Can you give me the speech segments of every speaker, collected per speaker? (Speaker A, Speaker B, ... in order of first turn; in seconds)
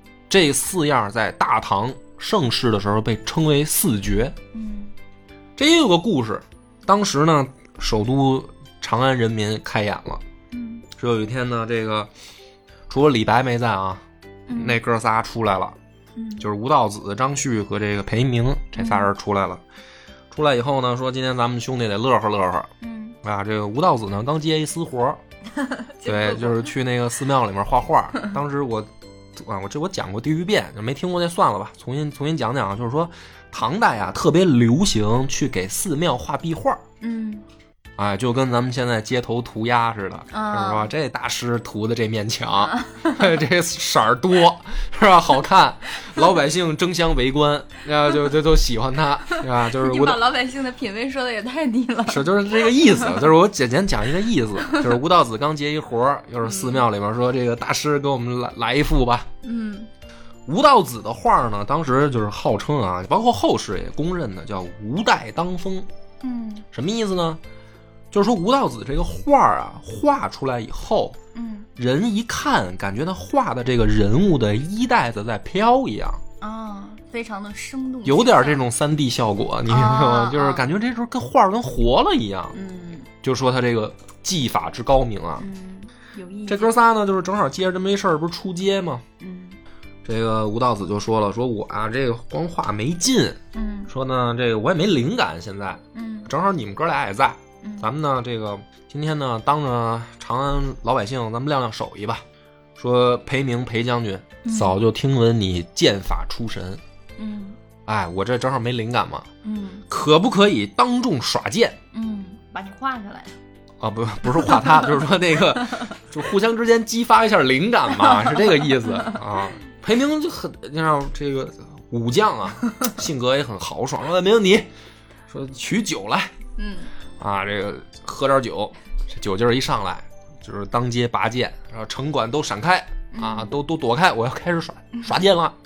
Speaker A: 0.3-4.3, 5.6-10.2, 10.9-12.1, 12.9-15.8, 16.4-19.6, 20.3-22.7, 23.2-25.2, 26.0-36.8, 38.0-50.2, 52.1-59.3, 60.5-65.9, 66.7-67.4, 68.1-71.2, 71.8-76.2, 78.0-82.5, 83.2-85.5, 86.5-89.0, 90.0-102.2, 102.8-106.8, 107.8-109.3, 109.9-111.8, 113.8-124.7, 125.3-126.3, 127.2-135.6
Speaker B: 4.5-4.9, 10.5-10.8, 14.5-14.8, 16.1-16.5, 18.7-19.1, 22.8-23.2, 25.6-26.7, 37.0-37.4, 40.3-40.9, 42.7-43.1, 49.3-53.3, 56.4-56.9, 59.4-59.9, 66.2-66.7, 71.3-71.7, 76.4-78.6, 79.7-80.7, 82.5-83.1, 85.4-86.7, 89.2-89.6, 93.5-93.9, 95.9-96.3, 97.6-97.9, 104.4-104.8, 107.2-107.6, 109.4-109.8, 111.9-113.3, 118.0-119.2, 126.6-126.9, 133.1-133.5